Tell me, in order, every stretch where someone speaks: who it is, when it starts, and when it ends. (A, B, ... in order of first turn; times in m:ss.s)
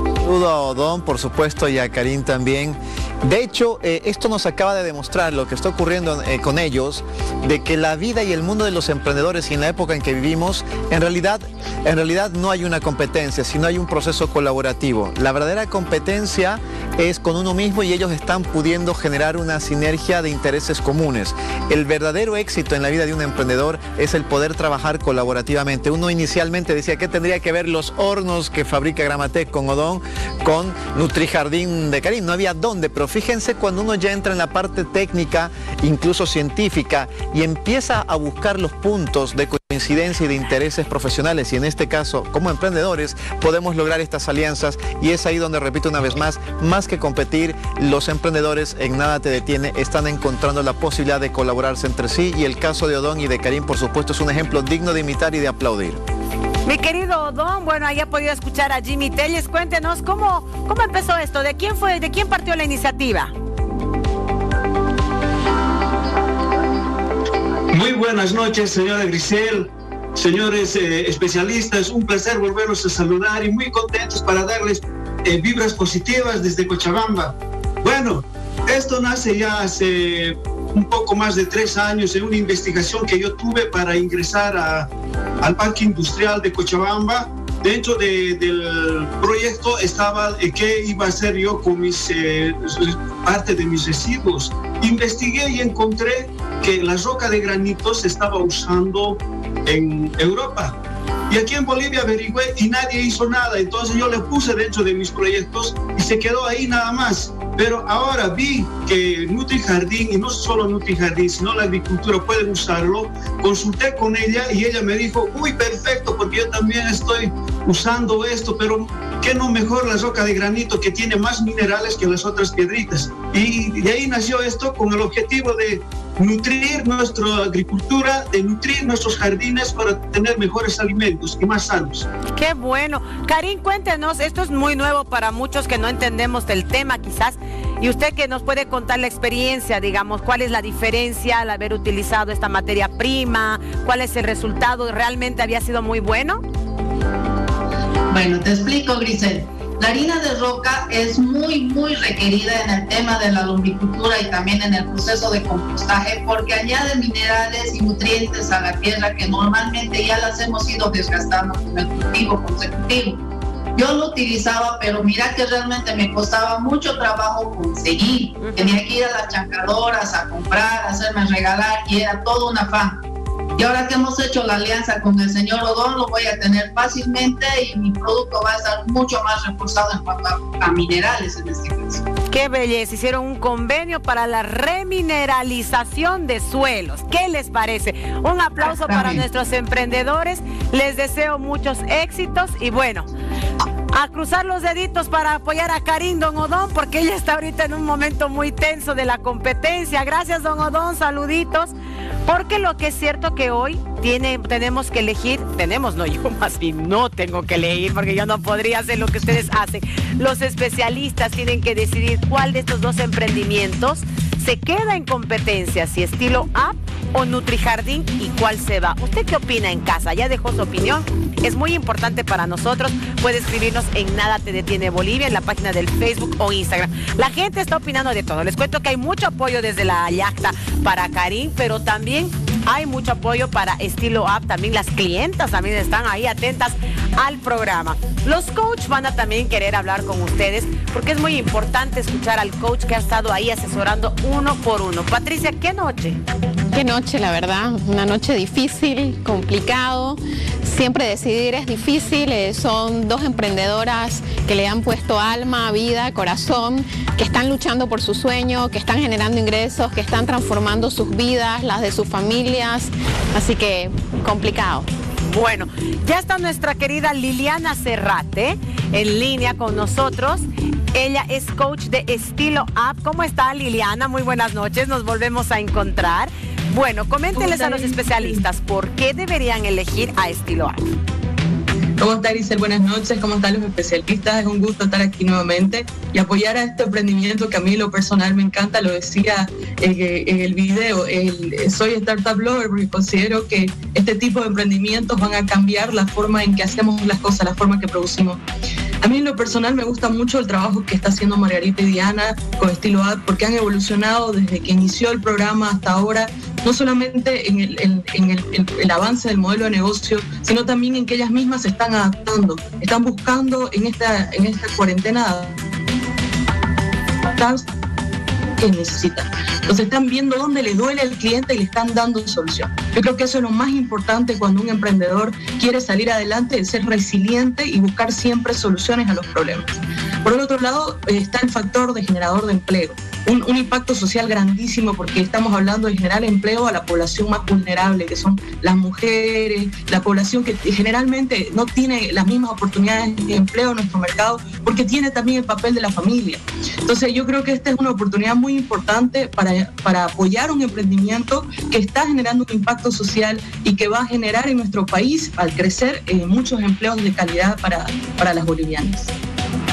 0:00.2-0:56.0 A
0:56.6-1:03.3 B
1:07.7-1:24.9 C
1:25.4-1:40.7 C
1:41.3-2:12.1 C
2:12.3-2:26.4 B
2:28.1-2:43.2 D
2:43.8-2:53.0 D
2:48.4-2:48.8 B
2:53.6-3:02.0 D
3:02.3-3:13.1 B
3:08.6-3:09.2 D
3:13.9-3:21.7 B
3:22.2-4:06.2 B
4:06.7-4:24.9 E
4:25.2-4:40.9 B
4:42.0-4:58.4 F
4:59.0-5:15.6 F
5:17.2-5:17.6 F
5:18.6-5:59.1 F